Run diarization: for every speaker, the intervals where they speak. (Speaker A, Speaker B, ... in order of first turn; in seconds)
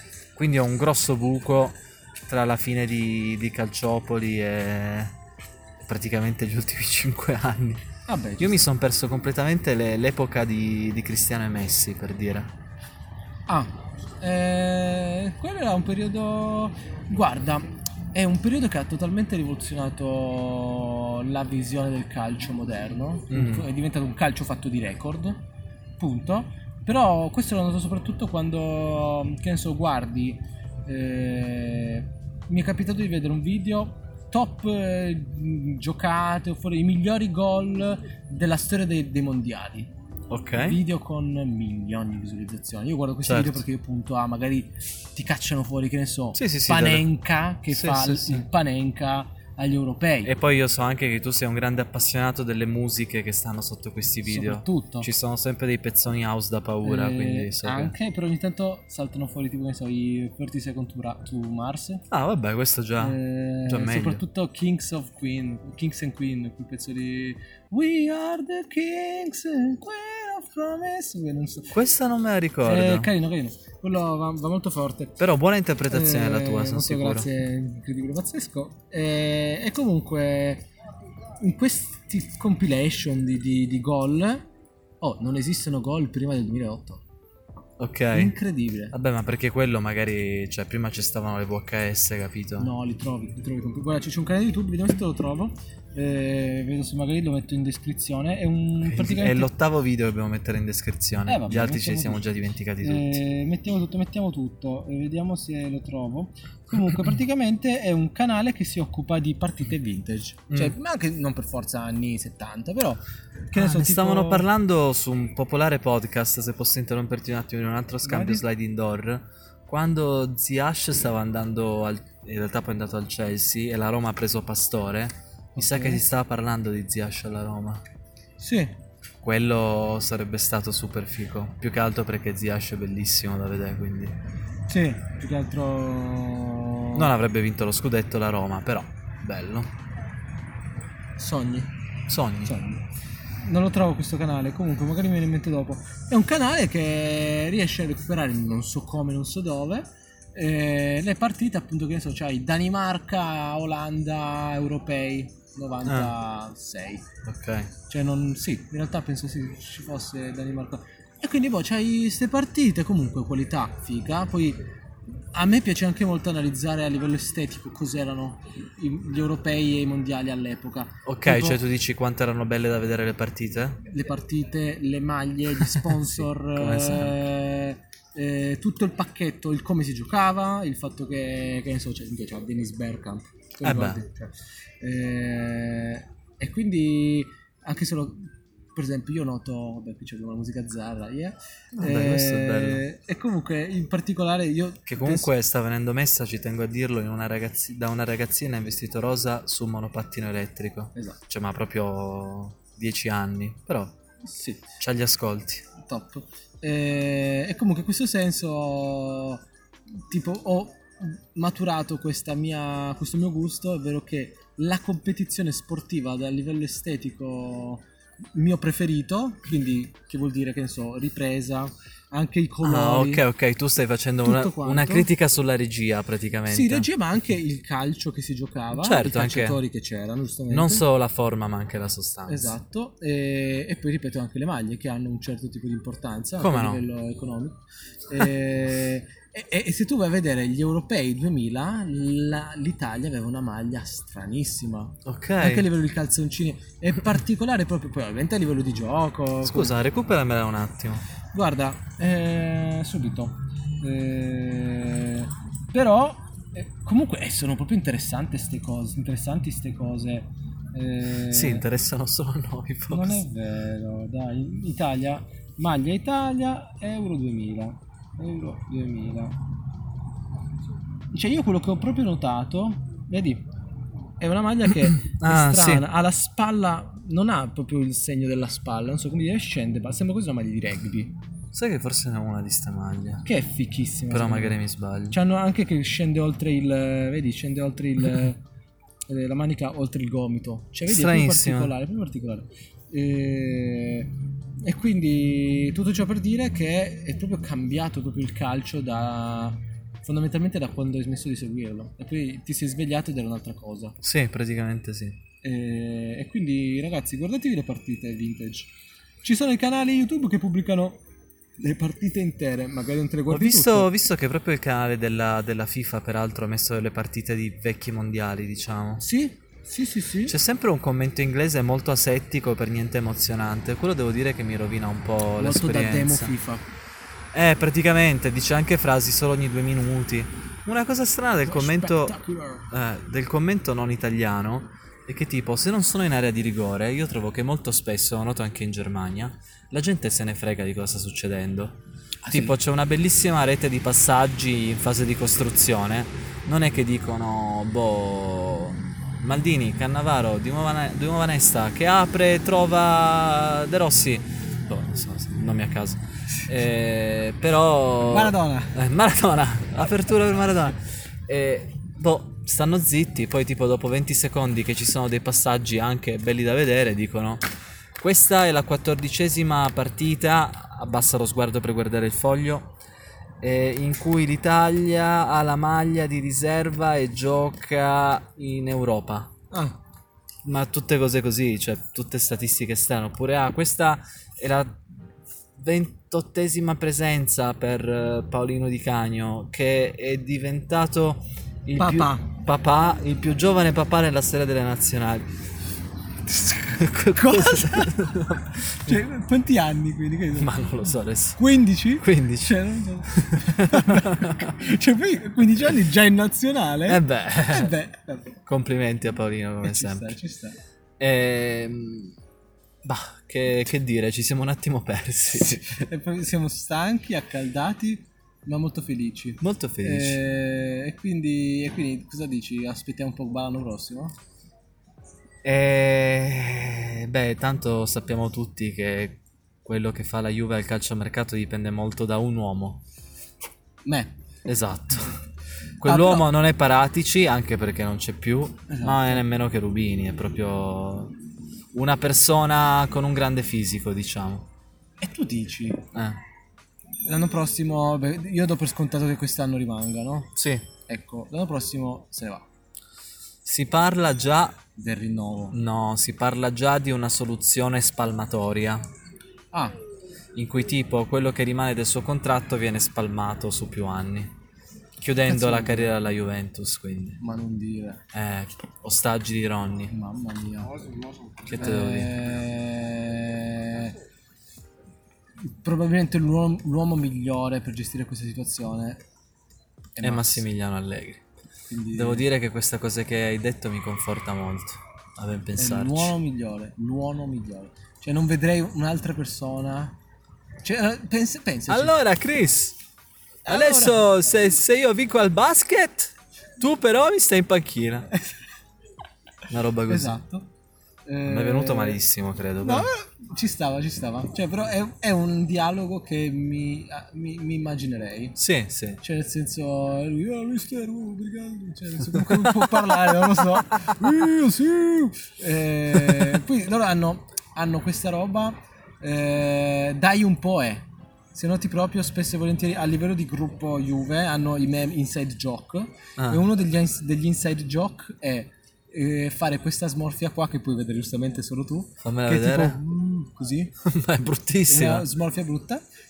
Speaker A: 0.3-5.2, 5.8-7.8, 8.4-12.5, 23.3-23.6, 40.3-40.8, 43.2-43.6, 46.3-47.1, 47.7-48.4, 50.2-57.9, 62.1-64.2, 71.7-73.1, 75.2-77.3, 87.8-88.3, 88.9-92.7, 98.8-103.2, 113.5-127.8, 129.2-134.2, 136.9-139.7, 142.1-142.6, 155.8-156.1, 157.2-157.7, 171.0-173.8, 175.6-177.2, 183.6-184.0, 191.8-192.8, 194.9-203.9, 204.8-205.7, 222.6-226.9, 228.8-229.6, 230.5-232.5, 236.4-236.8, 245.0-245.7, 249.4-251.0, 261.2-263.2, 275.2-275.8, 281.5-283.2, 284.1-285.2, 290.9-291.7, 304.0-305.2, 313.3-319.0, 320.3-326.3, 327.3-332.2, 332.7-341.8, 342.3-367.5, 368.0-372.8, 373.4-379.3, 380.4-384.8, 385.6-395.3, 396.7-399.0, 400.3-401.4, 402.0-404.6, 406.9-407.7, 408.4-410.1, 411.0-412.1, 412.8-415.8, 419.4-420.2, 425.4-432.8, 434.4-435.2, 435.8-441.2, 441.7-444.5, 445.9-446.2, 450.4-450.7, 453.4-454.6, 455.5-458.9, 460.3-464.4, 465.0-467.2, 468.1-469.9, 471.4-472.2, 480.0-481.2, 481.9-486.1, 491.7-492.8, 493.5-498.1, 499.5-500.2, 501.2-502.9, 508.4-509.0, 512.1-512.7, 526.2-526.5, 532.0-532.8, 533.8-535.1
Speaker B: 8.1-8.7, 13.5-25.4, 26.0-39.9, 40.6-50.3, 54.2-55.1, 56.8-62.0, 63.0-71.8, 72.6-75.2, 75.9-80.7, 81.4-84.4, 85.0-87.0, 88.1-88.9, 92.6-99.5, 101.2-102.3, 102.8-114.5, 118.0-118.4, 125.5-126.0, 128.4-128.7, 134.7-137.1, 141.2-141.7, 142.4-142.8, 143.4-157.0, 157.9-164.6, 165.3-171.6, 173.8-195.3, 204.2-204.6, 205.8-209.4, 210.0-223.2, 224.2-225.1, 226.5-230.8, 232.3-249.7, 251.3-261.7, 262.9-269.4, 271.1-273.4, 274.2-281.2, 283.2-284.6, 285.1-288.4, 289.1-304.0, 305.4-311.0, 311.6-313.9, 319.0-320.4, 325.4-326.6, 331.4-332.7, 342.2-342.6, 358.0-358.8, 379.5-379.8, 391.8-392.3, 396.3-408.4, 409.6-410.6, 415.3-424.1, 433.8-434.1, 435.8-436.3, 438.7-439.2, 445.0-445.9, 447.1-450.4, 450.9-452.4, 454.8-455.6, 465.3-465.9, 467.2-468.0, 469.9-470.9, 471.5-474.0, 475.4-479.0, 479.9-480.4, 481.7-482.2, 485.6-490.0, 490.6-492.0, 493.4-494.0, 499.9-500.5, 501.1-502.0, 502.6-508.4, 509.0-533.7, 534.7-535.8